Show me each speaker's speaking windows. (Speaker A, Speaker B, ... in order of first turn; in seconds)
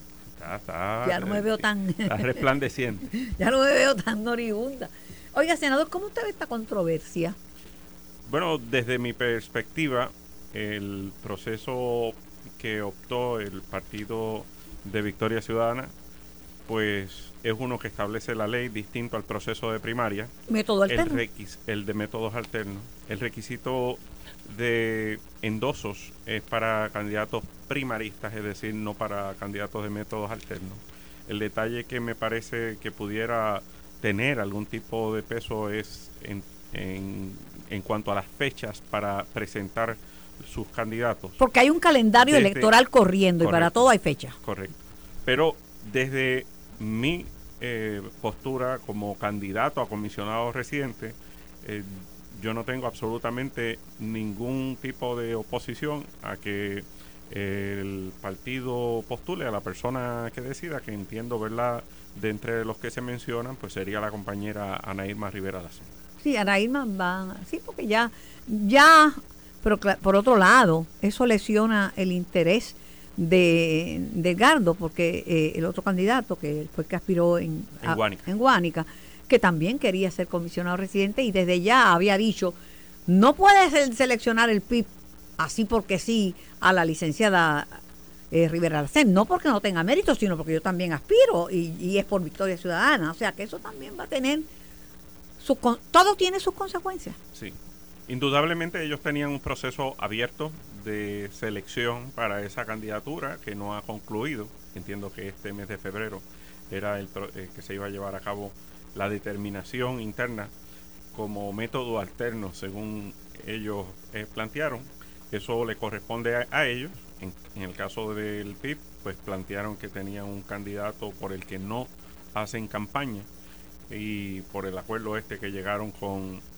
Speaker A: 0.4-3.1, 8.3-15.9, 16.6-20.3, 20.9-41.4, 42.2-42.7, 43.4-43.9, 44.4-65.9, 77.8-78.2, 98.1-110.5, 111.1-123.3, 123.9-126.4
Speaker B: 1.0-2.4, 3.1-7.3, 20.5-21.2, 41.4-44.4, 66.2-94.5, 95.4-97.2